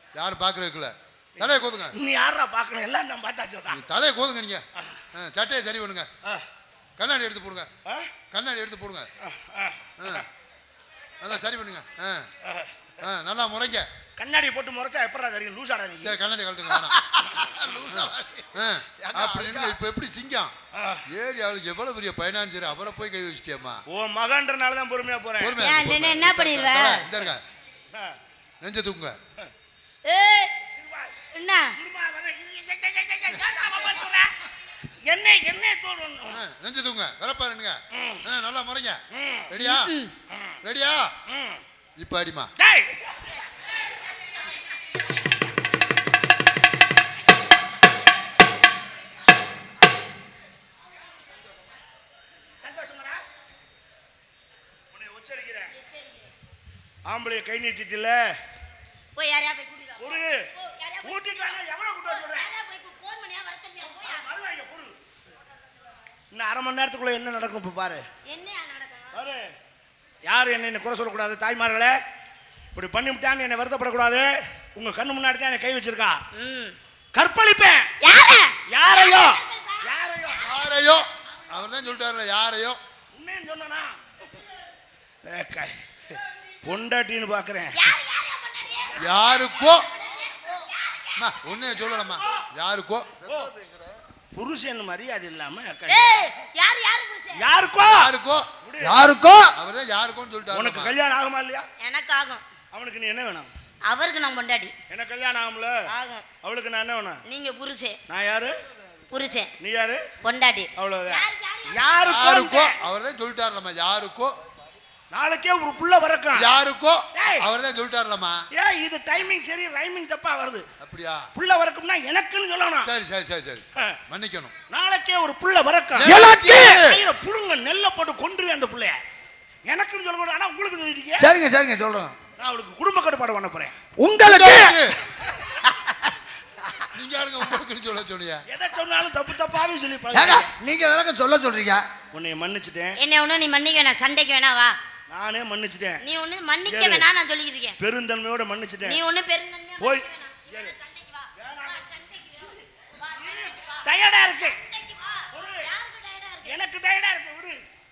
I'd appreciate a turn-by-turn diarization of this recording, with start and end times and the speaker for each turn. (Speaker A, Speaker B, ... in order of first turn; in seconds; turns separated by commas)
Speaker A: 0.1-1.9, Speaker B: 1.4-3.8, Speaker A: 3.7-6.1, Speaker A: 7.0-7.7, Speaker B: 7.8-8.1, Speaker A: 8.3-9.1, Speaker B: 9.2-10.2, Speaker A: 10.0-10.2, Speaker A: 11.2-12.3, Speaker B: 12.4-12.9, Speaker A: 13.0-13.9, Speaker B: 14.2-16.2, Speaker A: 16.0-20.5, Speaker C: 17.2-19.8, Speaker B: 20.7-21.0, Speaker A: 21.1-23.8, Speaker B: 23.9-25.6, Speaker A: 25.4-27.4, Speaker D: 25.6-27.1, Speaker A: 28.6-29.2, Speaker D: 30.0-30.5, Speaker B: 30.7-31.1, Speaker D: 31.3-31.7, Speaker B: 31.8-34.3, Speaker B: 35.0-36.4, Speaker A: 36.3-39.9, Speaker B: 37.9-38.2, Speaker B: 39.1-39.5, Speaker D: 39.6-40.1, Speaker B: 40.3-40.6, Speaker A: 40.6-41.1, Speaker B: 41.3-41.6, Speaker A: 42.0-42.5, Speaker B: 42.6-43.1, Speaker B: 52.6-53.2, Speaker B: 54.9-55.7, Speaker B: 57.0-58.3, Speaker D: 59.1-61.5, Speaker B: 60.0-60.5, Speaker B: 61.0-62.5, Speaker D: 62.1-64.2, Speaker B: 63.8-65.0, Speaker B: 66.3-68.0, Speaker D: 68.2-69.2, Speaker B: 69.1-69.5, Speaker B: 70.2-72.0, Speaker B: 72.7-76.2, Speaker D: 76.3-76.8, Speaker B: 77.1-77.9, Speaker D: 78.0-79.9, Speaker B: 78.7-80.6, Speaker A: 80.4-82.8, Speaker B: 83.1-84.0, Speaker B: 85.2-87.9, Speaker D: 87.7-89.0, Speaker A: 89.0-89.9, Speaker D: 90.2-91.2, Speaker A: 91.2-93.1, Speaker B: 93.2-93.5, Speaker C: 93.3-93.9, Speaker B: 94.3-96.2, Speaker D: 95.9-97.4, Speaker B: 97.3-98.1, Speaker A: 97.8-98.5, Speaker B: 98.6-99.1, Speaker C: 98.8-99.5, Speaker A: 99.5-100.9, Speaker B: 100.5-101.7, Speaker D: 101.8-102.4, Speaker B: 102.7-103.5, Speaker D: 103.8-104.7, Speaker B: 104.9-105.8, Speaker D: 105.9-106.2, Speaker B: 106.4-107.2, Speaker D: 107.3-108.0, Speaker B: 108.1-108.5, Speaker D: 109.1-109.5, Speaker B: 109.6-110.0, Speaker D: 110.2-111.9, Speaker B: 110.7-112.8, Speaker A: 112.0-114.3, Speaker B: 115.1-116.5, Speaker A: 116.3-118.5, Speaker B: 117.1-117.5, Speaker B: 118.5-120.7, Speaker A: 120.8-121.3, Speaker B: 121.3-122.9, Speaker A: 122.8-124.5, Speaker B: 124.7-129.0, Speaker A: 125.9-126.7, Speaker C: 126.0-127.0, Speaker B: 129.7-131.3, Speaker C: 131.2-132.2, Speaker B: 132.4-133.7, Speaker C: 134.0-134.9, Speaker A: 134.2-135.0, Speaker C: 135.4-136.1, Speaker A: 136.9-138.4, Speaker B: 138.5-140.5, Speaker C: 140.1-141.9, Speaker B: 142.1-143.0, Speaker D: 143.0-144.8, Speaker B: 145.1-146.0, Speaker D: 146.0-147.8, Speaker B: 146.7-147.1, Speaker B: 147.8-149.0, Speaker D: 148.8-153.9, Speaker B: 149.8-150.7, Speaker B: 151.3-152.6, Speaker B: 153.1-154.6, Speaker D: 154.5-156.6, Speaker B: 155.3-155.7, Speaker B: 156.4-157.6